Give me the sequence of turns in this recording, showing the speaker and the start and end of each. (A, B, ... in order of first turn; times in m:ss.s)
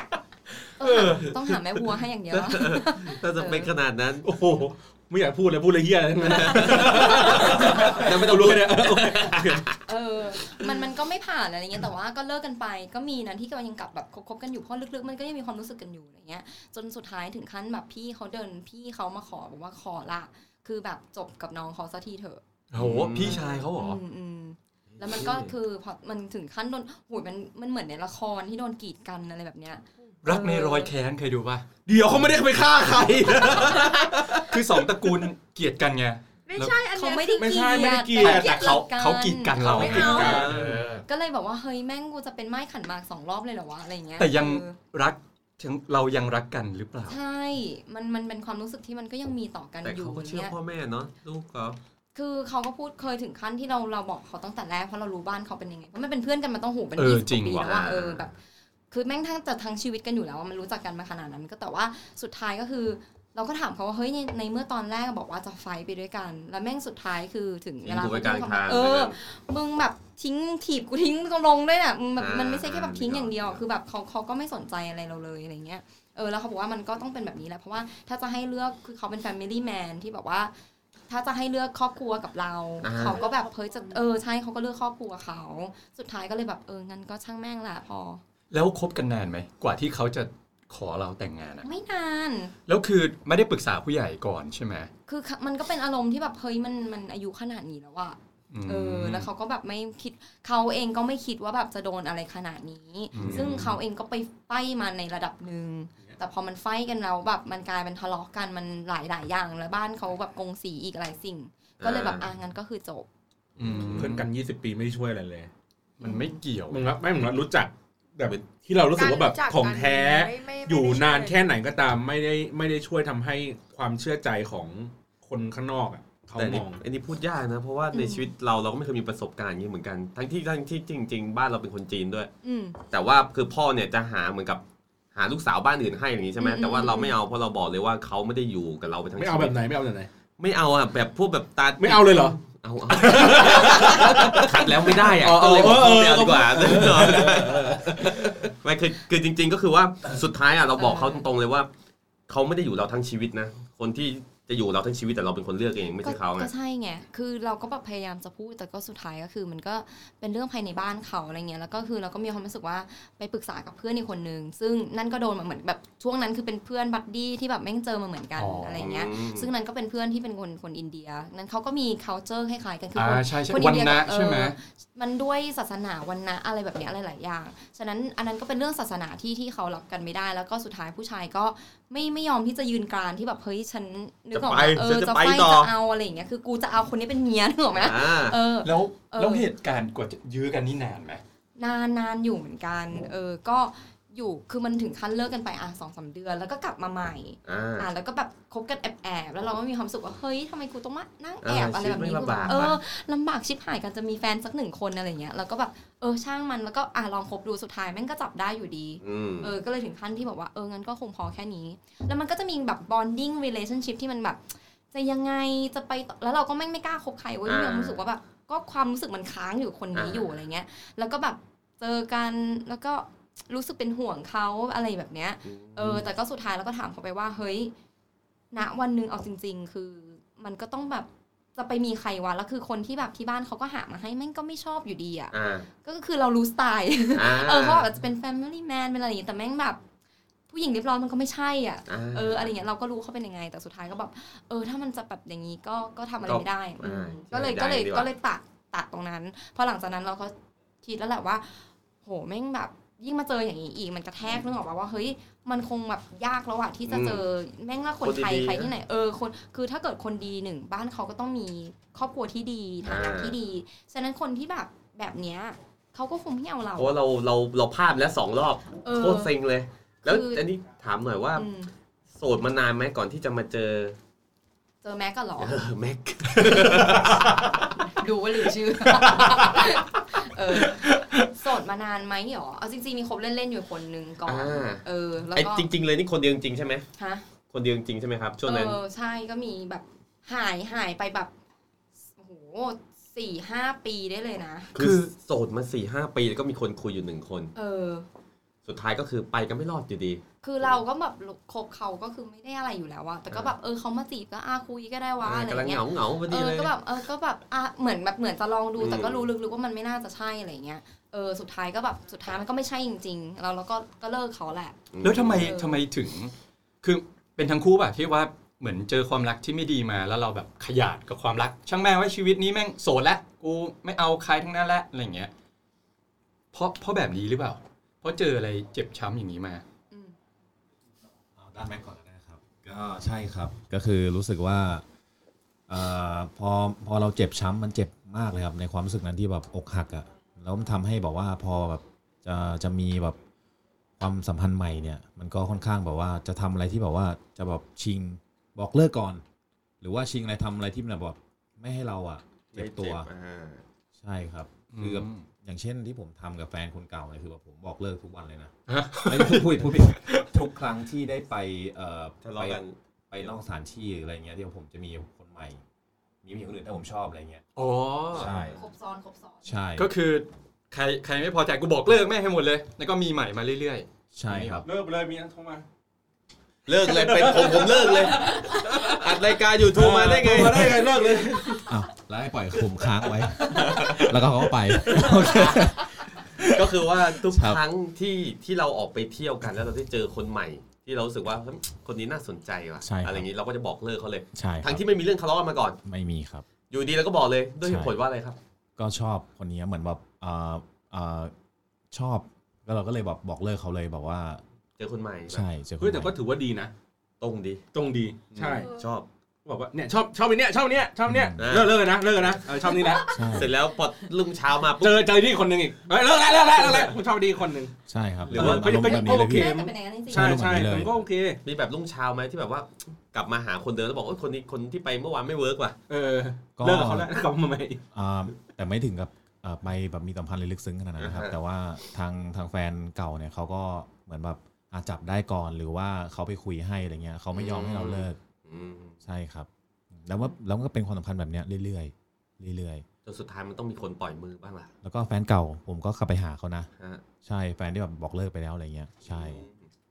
0:00.8-0:03.7 A
0:01.0-0:01.3 B
0:02.3-0:04.3 B
0:04.2-0:09.6 C
0:06.2-0:09.8 B
0:09.8-0:22.4 A
0:22.7-0:24.0 D
0:22.7-0:23.6 B
0:23.2-0:30.9 A
0:25.0-0:25.5 B
0:30.2-0:31.7 D
0:31.8-0:34.6 C
0:34.4-0:36.8 D
0:36.5-0:37.8 E
0:36.9-0:40.5 A
0:37.4-0:38.7 C
0:38.2-0:41.0 D
0:39.7-0:40.4 E
0:39.8-0:40.7 C
0:39.9-0:40.8 B
0:41.0-0:44.8 A
0:44.2-0:47.2 D
0:47.0-0:50.5 A
0:49.8-0:51.8 B
0:52.1-0:58.4 A
0:57.0-0:57.7 D
0:57.6-0:58.3 B
0:58.9-1:20.5 A
1:07.8-1:09.2 B
1:12.2-1:13.6 B
1:21.1-1:28.2 A
1:22.8-1:23.2 B
1:23.0-1:24.0 E
1:28.5-1:31.6 D
1:31.6-1:32.5 A
1:32.7-1:34.9 D
1:35.1-1:53.1 A
1:38.5-1:39.3 D
1:43.1-1:43.8 D
1:43.2-1:43.6 C
1:51.8-1:52.3 B
1:53.6-1:54.3 D
1:53.6-1:54.1 B
1:53.6-1:55.5 C
1:56.0-1:56.9 D
1:56.0-1:56.4 A
1:56.7-2:06.8 C
1:58.9-2:01.6 E
2:06.4-2:12.3 B
2:07.9-2:08.3 A
2:12.4-2:12.8 A
2:12.9-2:14.6 B
2:15.1-2:19.7 B
2:16.4-2:17.2 A
2:19.2-2:20.1 C
2:20.4-2:31.7 B
2:21.8-2:22.4 C
2:22.9-2:28.4 C
2:30.8-2:31.2 A
2:32.3-2:36.5 B
2:36.0-3:09.5 A
2:48.4-2:48.9 D
2:48.8-2:49.5 B
2:52.9-2:54.6 D
3:04.3-3:05.7 B
3:07.7-3:08.4 B
3:08.6-3:11.2 D
3:11.6-3:47.7 A
3:17.4-3:17.9 B
3:21.4-3:22.8 B
3:29.0-3:29.5 B
3:37.4-3:38.0 B
3:39.9-3:40.3 B
3:45.4-3:46.0 B
3:48.5-3:59.8 A
3:55.3-3:55.7 B
3:57.1-3:57.9 B
4:00.5-4:27.0 A
4:01.9-4:02.5 B
4:06.2-4:08.1 B
4:16.9-4:17.2 B
4:18.0-4:18.7 B
4:22.8-4:23.4 B
4:26.8-4:31.5 B
4:28.8-4:29.3 A
4:30.0-4:30.5 A
4:31.4-4:31.7 A
4:32.1-4:34.0 B
4:34.8-4:35.6 A
4:35.4-4:37.7 B
4:36.4-4:37.2 D
4:37.8-4:45.7 A
4:38.9-4:39.6 D
4:40.5-4:41.3 D
4:44.2-4:46.9 B
4:47.0-4:47.2 A
4:47.5-4:48.8 B
4:48.4-4:51.3 A
4:52.2-4:54.8 A
4:54.7-4:57.5 B
4:54.8-4:55.1 D
4:57.5-4:58.1 A
4:58.6-5:00.7 B
5:00.4-5:14.8 A
5:05.2-5:06.7 B
5:08.8-5:09.3 B
5:14.9-5:15.5 B
5:15.0-5:25.3 D
5:15.4-5:15.8 A
5:26.5-5:29.6 D
5:29.9-5:30.2 A
5:31.4-5:34.8 F
5:35.7-5:43.2 F
5:44.0-5:49.2 F
5:49.8-5:53.1 F
5:52.5-5:53.6 B
5:54.0-6:05.6 F
5:54.7-5:55.2 D
5:58.7-6:00.3 D
6:02.2-6:02.8 B
6:06.2-6:07.4 F
6:07.6-6:08.3 D
6:08.1-6:08.6 F
6:08.1-6:08.6 B
6:08.5-6:09.5 A
6:09.4-6:09.9 F
6:09.8-6:14.6 D
6:14.1-6:14.7 F
6:14.6-6:15.6 C
6:16.7-6:21.5 B
6:16.8-6:18.9 C
6:19.7-6:21.7 C
6:20.4-6:20.6 F
6:21.6-6:27.6 F
6:23.5-6:24.1 B
6:25.2-6:25.7 B
6:26.4-6:35.8 B
6:32.8-6:33.3 F
6:34.3-6:34.9 F
6:35.8-6:36.4 F
6:36.7-6:38.4 B
6:37.6-6:38.0 F
6:38.8-6:41.3 F
6:41.9-6:44.4 F
6:44.8-6:45.4 B
6:45.3-6:46.1 F
6:45.8-6:46.7 C
6:47.2-6:47.6 B
6:47.7-6:48.7 C
6:48.3-6:49.1 B
6:49.4-6:53.2 C
6:51.1-6:51.4 F
6:51.4-6:52.4 B
6:53.1-6:53.5 F
6:53.3-6:55.1 B
6:54.8-6:57.7 C
6:57.9-6:59.6 F
6:58.3-6:58.7 B
6:58.3-7:01.4 C
6:58.8-7:00.4 A
7:00.1-7:01.0 F
7:01.4-7:05.8 B
7:05.9-7:07.8 C
7:06.6-7:07.1 F
7:07.9-7:18.2 F
7:11.0-7:11.4 B
7:17.3-7:19.0 B
7:19.0-7:22.8 F
7:23.0-7:24.7 B
7:24.8-7:26.7 F
7:26.8-7:27.0 B
7:27.2-7:29.4 F
7:29.0-7:29.7 B